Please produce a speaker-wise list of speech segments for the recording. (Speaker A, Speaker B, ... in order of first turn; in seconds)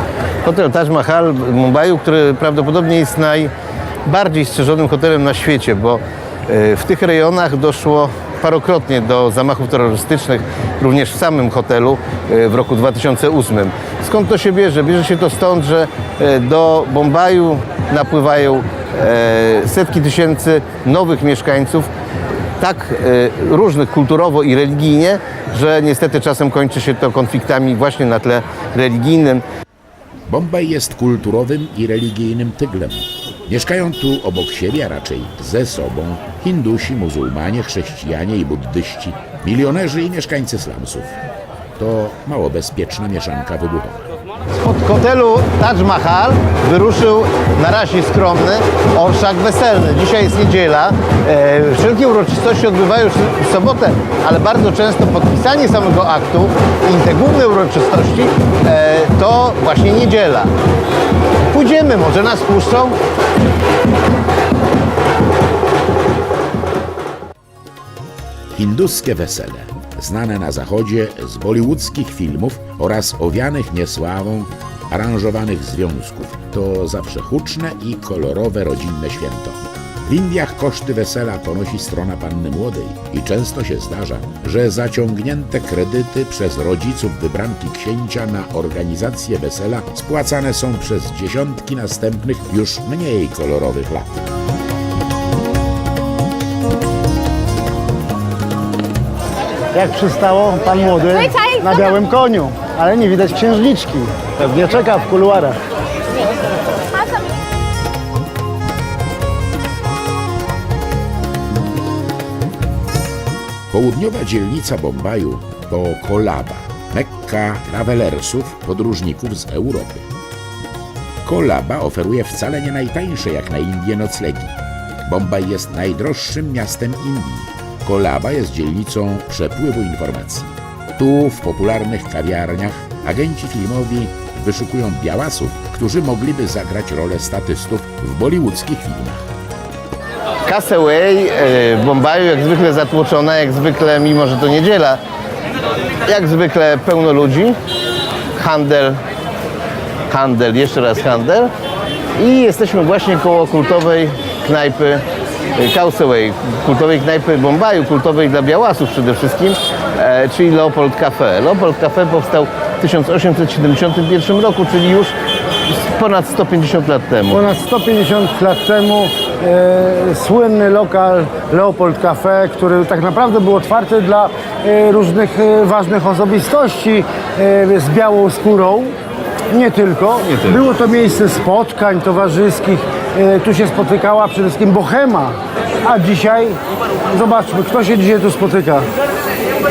Speaker A: 0.4-3.5, 4.0-21.9, 22.6-29.4, 44.5-60.5, 61.5-63.0, 140.5-145.0, 146.0-147.6, 148.3-149.0, 150.1-151.5, 152.2-155.0, 155.5-165.1, 165.7-167.4, 180.2-180.6
Speaker B: 30.3-41.2, 41.8-44.1, 68.5-94.2, 113.7-120.1, 121.2-139.2
Speaker C: 99.7-105.6, 167.3-178.9, 179.5-188.9